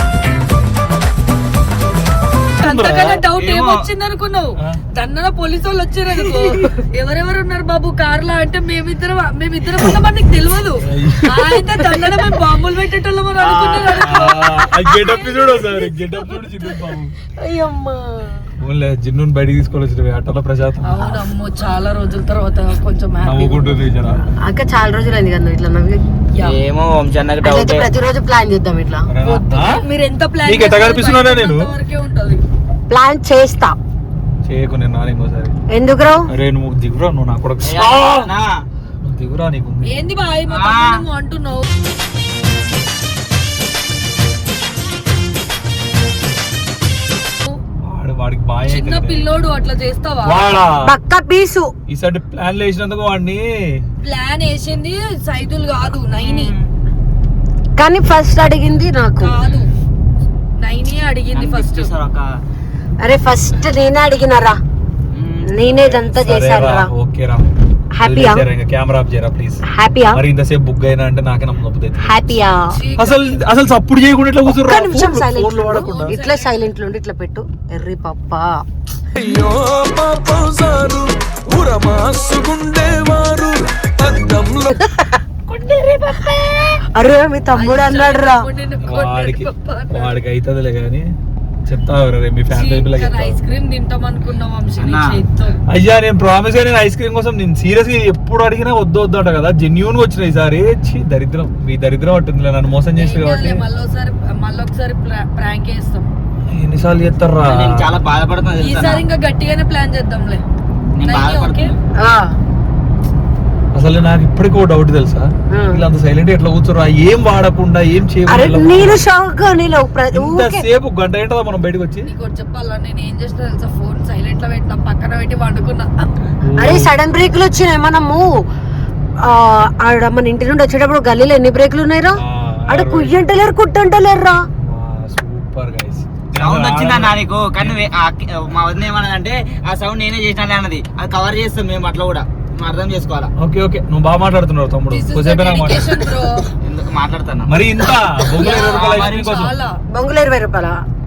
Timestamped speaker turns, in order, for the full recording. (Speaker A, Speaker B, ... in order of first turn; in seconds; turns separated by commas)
Speaker A: 2.6-15.2, Speaker B: 2.6-3.2, Speaker C: 3.3-3.9, Speaker B: 9.7-10.0, Speaker B: 10.8-11.8, Speaker C: 13.4-14.2, Speaker B: 13.9-17.1, Speaker D: 17.4-18.0, Speaker B: 18.6-21.3, Speaker A: 20.8-23.8, Speaker B: 23.2-24.2, Speaker D: 24.3-26.0, Speaker C: 26.4-27.9, Speaker D: 27.4-29.1, Speaker B: 29.1-29.8, Speaker A: 29.2-32.4, Speaker B: 30.4-31.7, Speaker D: 32.9-33.8, Speaker B: 34.4-35.5, Speaker D: 35.7-36.3, Speaker B: 36.3-38.3, Speaker C: 37.6-38.6, Speaker B: 39.0-40.0, Speaker A: 39.8-41.7, Speaker C: 40.5-41.0, Speaker B: 47.8-49.3, Speaker A: 48.6-50.4, Speaker B: 50.2-50.9, Speaker D: 50.8-51.7, Speaker B: 51.9-53.8, Speaker A: 54.0-56.6, Speaker C: 56.2-56.6, Speaker D: 57.8-59.3, Speaker A: 59.2-59.7, Speaker A: 60.6-61.9, Speaker C: 61.3-62.3, Speaker D: 63.0-64.6, Speaker C: 65.1-65.7, Speaker D: 65.5-66.9, Speaker B: 65.7-67.5, Speaker D: 68.0-68.5, Speaker B: 68.0-72.1, Speaker D: 69.7-70.2, Speaker D: 72.0-72.7, Speaker A: 72.7-73.5, Speaker B: 73.0-76.2, Speaker D: 74.5-78.5, Speaker A: 75.8-76.6, Speaker E: 79.1-84.8, Speaker A: 85.5-86.8, Speaker D: 86.9-88.5, Speaker A: 87.5-90.2, Speaker B: 88.8-91.1, Speaker B: 91.7-93.4, Speaker A: 92.5-95.6, Speaker C: 94.8-95.2, Speaker B: 95.7-103.6, Speaker A: 102.9-106.1, Speaker B: 106.4-107.7, Speaker C: 107.4-109.0, Speaker A: 108.6-110.4, Speaker C: 111.0-111.8, Speaker A: 111.1-111.7, Speaker D: 112.0-112.3, Speaker B: 113.7-119.0, Speaker D: 115.5-115.8, Speaker D: 118.3-120.7, Speaker B: 120.1-122.1, Speaker A: 122.0-125.9, Speaker B: 126.4-126.9, Speaker D: 126.6-128.3, Speaker D: 129.2-134.4, Speaker B: 132.2-133.2, Speaker B: 134.6-137.8, Speaker C: 136.4-143.3, Speaker B: 143.4-146.1, Speaker A: 144.9-146.5, Speaker C: 146.6-147.6, Speaker B: 147.5-149.5, Speaker A: 148.4-149.7, Speaker C: 148.4-149.4, Speaker D: 149.9-150.8